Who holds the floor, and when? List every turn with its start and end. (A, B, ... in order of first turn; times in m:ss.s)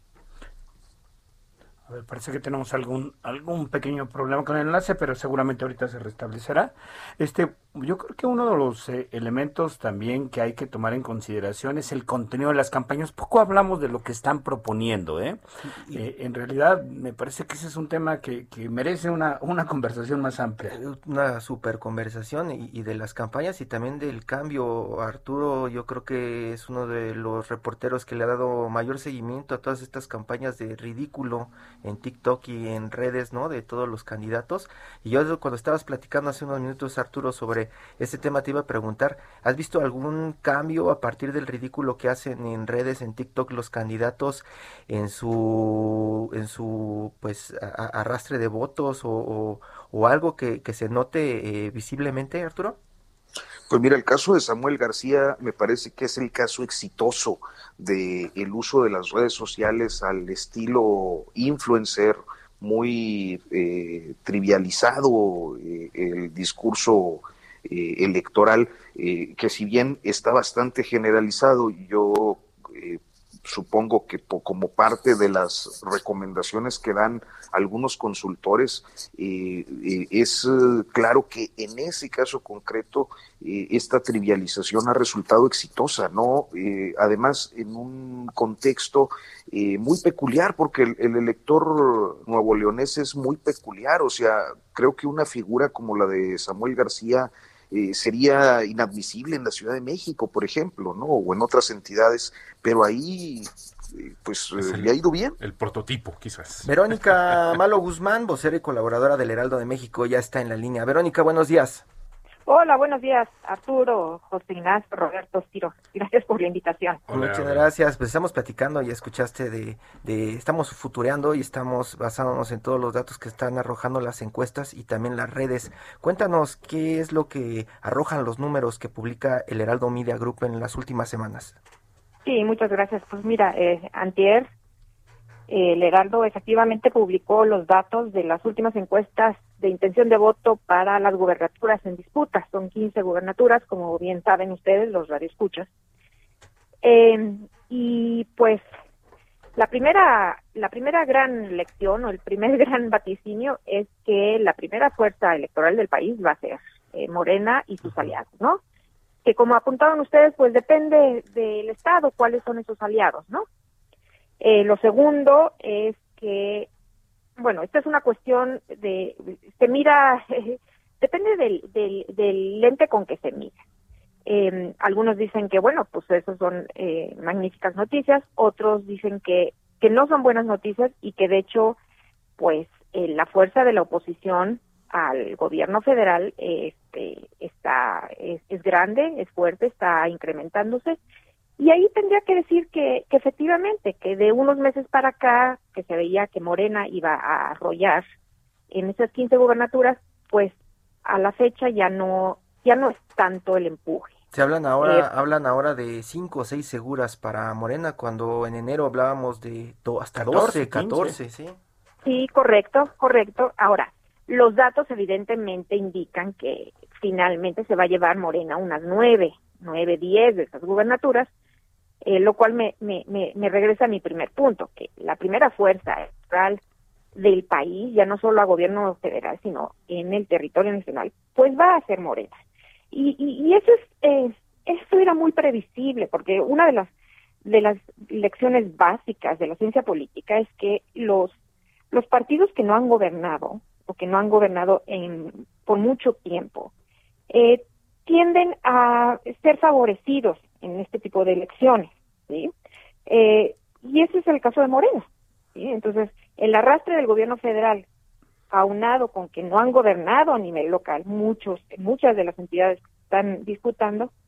0:01.9-0:20.8 A
0:20.6-0:52.8 B
0:53.7-1:45.4 C
1:44.6-1:47.4 D
1:46.6-1:51.8 B
1:52.5-1:57.0 E
1:57.1-1:57.7 D
1:57.1-2:11.6 B
2:12.2-2:14.5 E
2:15.5-2:25.7 E
2:26.8-2:28.6 E
2:29.6-2:38.6 E
2:39.2-2:43.5 E
2:44.4-2:46.7 E
2:47.4-2:53.6 E
2:54.3-3:01.8 E
3:02.4-3:11.0 E
3:11.6-3:18.1 E
3:18.7-3:24.1 E
3:24.3-3:31.6 B
3:24.8-3:25.1 E
3:30.2-3:31.2 A
3:32.0-3:41.3 E
3:42.0-3:46.6 E
3:47.2-3:52.4 E
3:52.9-3:56.9 E
3:57.4-4:01.3 E
4:01.9-4:06.7 E
4:07.3-4:12.5 E
4:13.1-4:17.8 E
4:18.5-4:24.1 E